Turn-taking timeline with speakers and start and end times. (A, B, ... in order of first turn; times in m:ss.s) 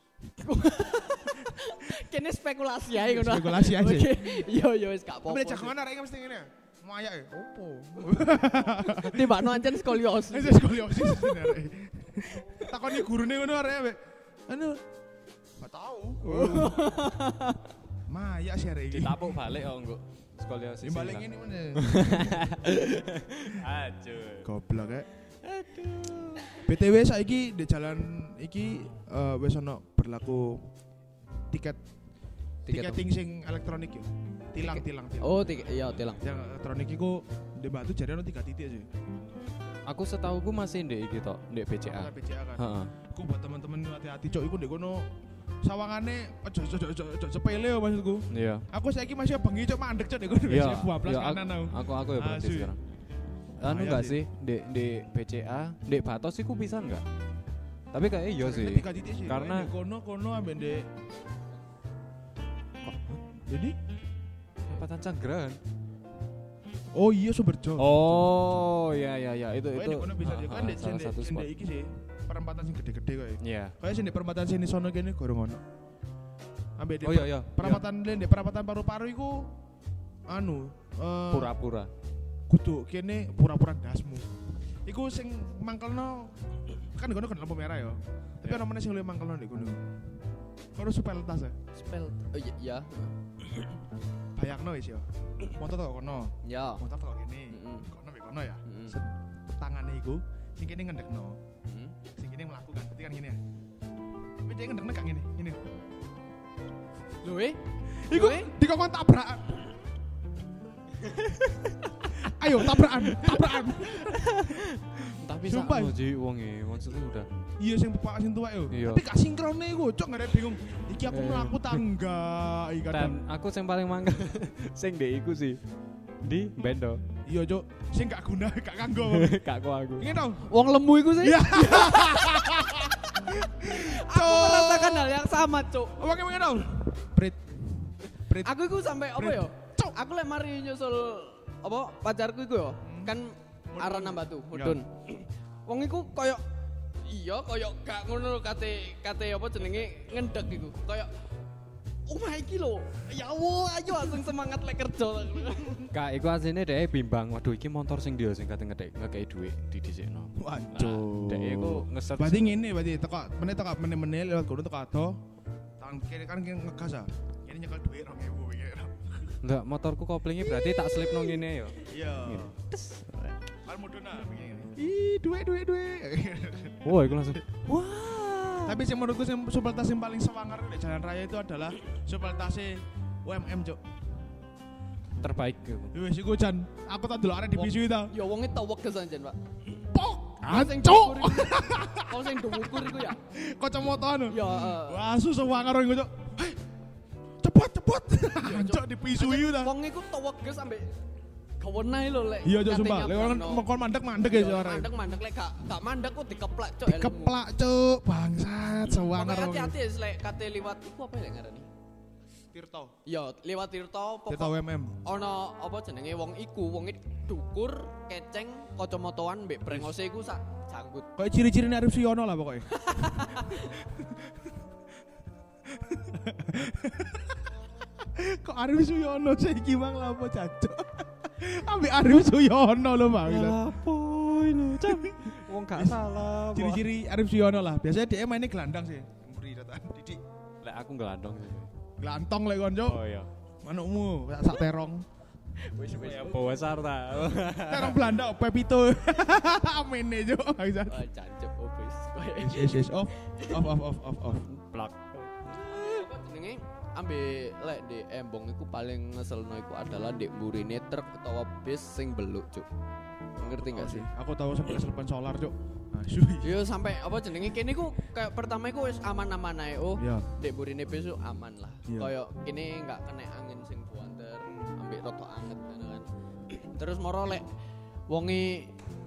0:00.4-0:05.7 A
0:03.0-0:04.4 B
0:05.3-0:14.8 B
0:08.7-0:11.3 A
0:15.6-0:16.8 B
0:16.2-0:17.0 C
0:16.2-0:17.6 A
0:18.1-0:19.2 B
0:18.9-0:24.5 C
0:20.8-0:22.6 B
0:24.4-0:25.1 B
0:25.6-0:26.2 C
0:26.6-0:30.6 B
0:31.5-0:31.8 B
0:32.6-0:33.0 A
0:32.7-0:38.9 B
0:34.6-0:36.2 A
0:39.9-0:42.9 C
0:41.8-0:45.1 B
0:45.6-0:52.7 B
0:48.3-0:48.6 C
0:50.5-0:52.8 C
0:53.6-0:54.2 B
0:53.6-0:57.0 C
0:57.9-0:59.7 C
0:58.4-1:00.9 B
1:02.8-1:03.2 C
1:03.5-1:03.8 B
1:04.6-1:05.6 C
1:06.9-1:08.3 B
1:07.8-1:11.5 C
1:09.7-1:15.6 B
1:13.4-1:13.7 C
1:16.8-1:19.5 B
1:17.0-1:17.8 C
1:20.3-1:21.5 B
1:21.3-1:21.9 C
1:22.5-1:24.3 B
1:24.8-1:26.4 B
1:27.0-1:29.8 B
1:30.7-1:31.6 B
1:31.8-1:33.1 A
1:34.3-1:41.4 B
1:36.4-1:36.8 A
1:37.5-1:37.9 A
1:38.6-1:39.0 A
1:41.6-1:42.0 A
1:42.2-1:43.4 B
1:44.4-1:45.6 B
1:47.2-1:48.5 A
1:48.0-1:49.8 B
1:51.0-1:52.2 C
1:52.2-1:54.6 B
1:52.8-1:57.3 C
1:55.4-1:56.0 B
1:57.6-2:03.2 B
1:58.7-1:59.0 C
2:01.1-2:01.8 C
2:02.9-2:05.6 C
2:06.2-2:07.0 C
2:07.2-2:09.4 B
2:09.0-2:10.1 C
2:10.0-2:10.5 B
2:10.4-2:12.6 A
2:11.2-2:15.2 B
2:13.6-2:16.0 A
2:16.0-2:19.9 B
2:18.4-2:26.4 A
2:22.8-2:23.1 B
2:23.7-2:24.8 B
2:27.0-2:31.1 A
2:32.1-2:35.9 A
2:35.9-2:42.6 C
2:40.4-2:45.2 B
2:45.8-2:49.4 B
2:49.4-2:53.4 C
2:51.8-2:52.5 B
2:53.6-2:57.4 B
2:56.8-2:58.8 C
2:58.6-3:03.8 B
3:05.2-3:05.9 C
3:05.9-3:08.1 B
3:07.5-3:09.4 A
3:09.7-3:16.6 B
3:10.4-3:13.2 A
3:14.3-3:15.0 A
3:17.4-3:19.7 B
3:18.3-3:20.9 A
3:21.6-3:23.7 A
3:22.4-3:24.9 B
3:24.2-3:27.4 A
3:26.8-3:29.8 B
3:28.9-3:31.7 A
3:32.5-3:32.9 B
3:33.0-3:41.1 A
3:34.3-3:35.0 B
3:41.2-3:44.3 B
3:42.7-3:43.7 A
3:45.7-3:47.4 B
3:48.0-3:53.6 B
3:53.2-3:56.8 C
3:54.8-4:00.2 B
4:00.6-4:01.7 C
4:02.0-4:03.0 B
4:02.8-4:03.3 C
4:03.6-4:05.0 B
4:05.6-4:06.6 A
4:05.9-4:08.0 C
4:07.6-4:11.0 B
4:10.8-4:13.5 A
4:12.3-4:14.5 B
4:14.5-4:15.3 C
4:15.4-4:22.7 A
4:23.4-4:24.1 A
4:23.4-4:26.6 B
4:26.4-4:36.0 A
4:30.0-4:30.3 B
4:31.9-4:32.1 B
4:36.6-4:37.5 A
4:38.1-4:38.7 A